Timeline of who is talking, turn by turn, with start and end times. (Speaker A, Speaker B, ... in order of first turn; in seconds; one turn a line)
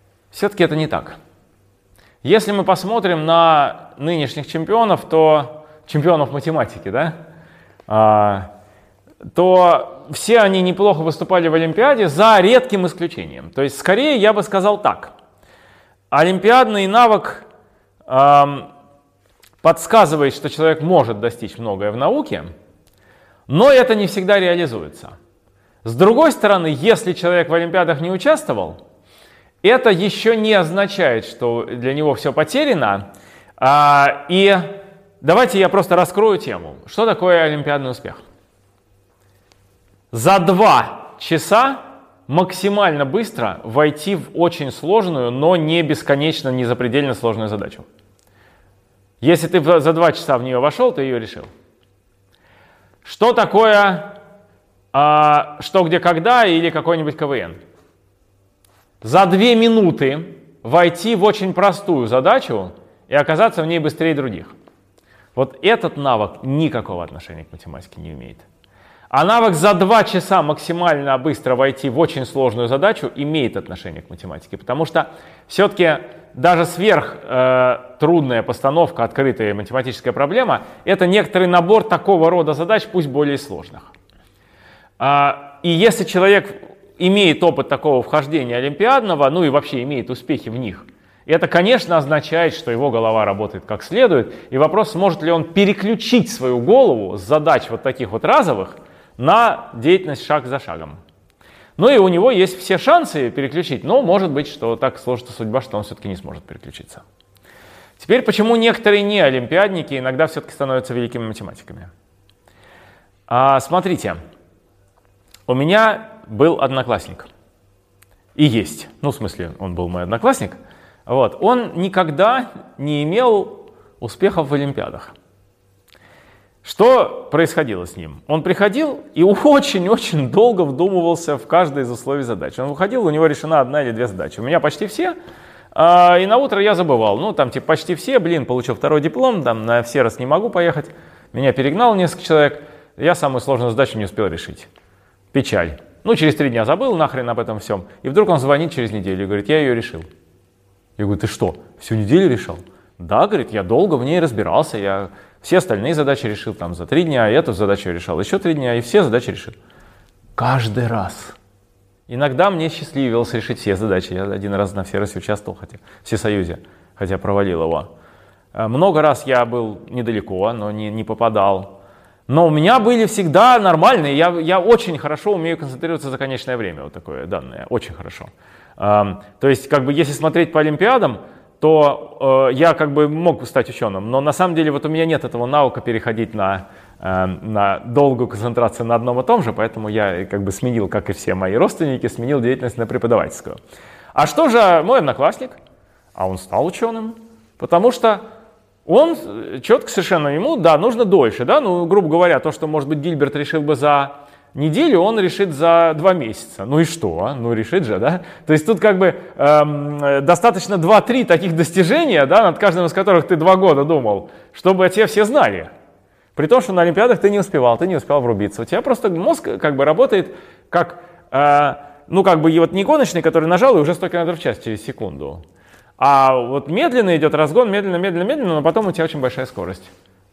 Speaker A: 0.3-1.2
Speaker A: 2.2-7.2
Speaker A: 7.9-8.5
Speaker A: 9.3-15.1
Speaker A: 16.1-17.5
Speaker A: 18.1-18.7
Speaker A: 19.6-22.5
Speaker A: 23.5-25.1
Speaker A: 25.8-28.8
Speaker A: 29.6-33.0
Speaker A: 33.6-38.2
Speaker A: 40.1-47.9
Speaker A: 49.2-51.5
Speaker A: 53.0-54.2
Speaker A: 54.9-57.6
Speaker A: 59.0-64.5
Speaker A: 65.3-68.5
Speaker A: 69.1-83.9
Speaker A: 85.0-101.0
Speaker A: 101.8-107.0
Speaker A: 108.0-111.9
Speaker A: 113.3-114.2
Speaker A: 115.5-117.3
Speaker A: 118.3-125.1
Speaker A: 126.6-135.2
Speaker A: 135.7-144.7
Speaker A: 145.3-150.1
Speaker A: 151.0-159.5
Speaker A: 160.3-161.4
Speaker A: 162.1-167.9
Speaker A: 168.5-171.8
Speaker A: 172.3-193.6
Speaker A: 194.1-195.6
Speaker A: 196.1-198.2
Speaker A: 198.8-215.7
Speaker A: 216.3-225.4
Speaker A: 226.0-229.9